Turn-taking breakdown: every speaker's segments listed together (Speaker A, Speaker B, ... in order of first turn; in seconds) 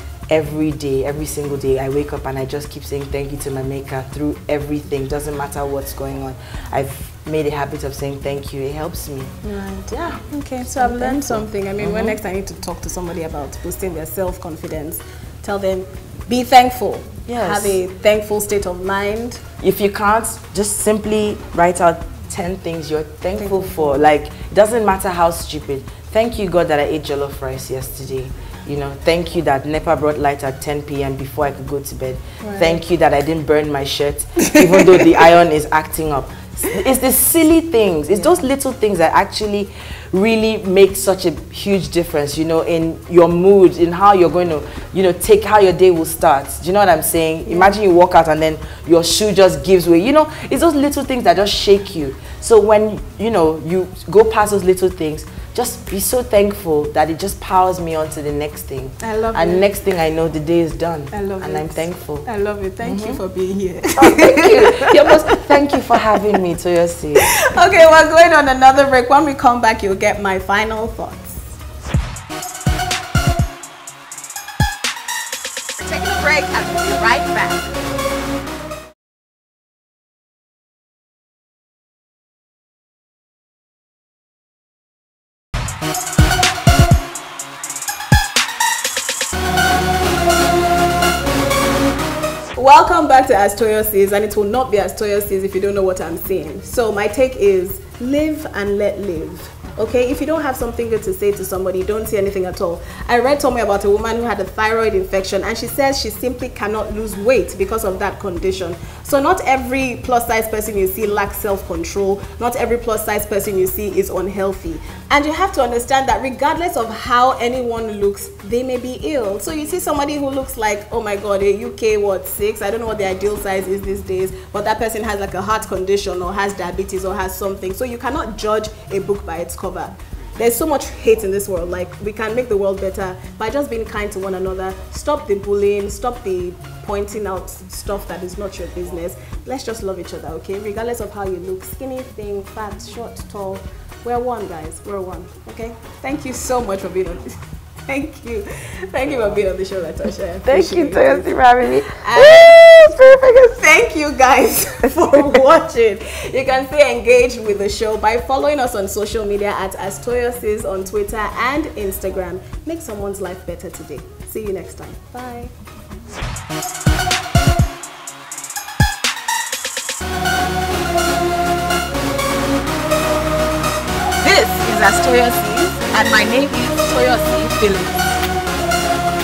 Speaker A: 0.3-9.4, 9.9-12.2, 17.3-17.8, 19.6-62.3, 62.8-63.2, 64.0-67.5, 149.1-149.4, 150.4-153.6, 155.0-155.4
Speaker B: 9.4-19.4, 23.4-23.9, 32.4-32.8, 47.5-47.8, 59.0-59.7, 61.1-65.5, 67.2-71.6, 75.8-77.7, 92.6-165.5, 174.2-178.1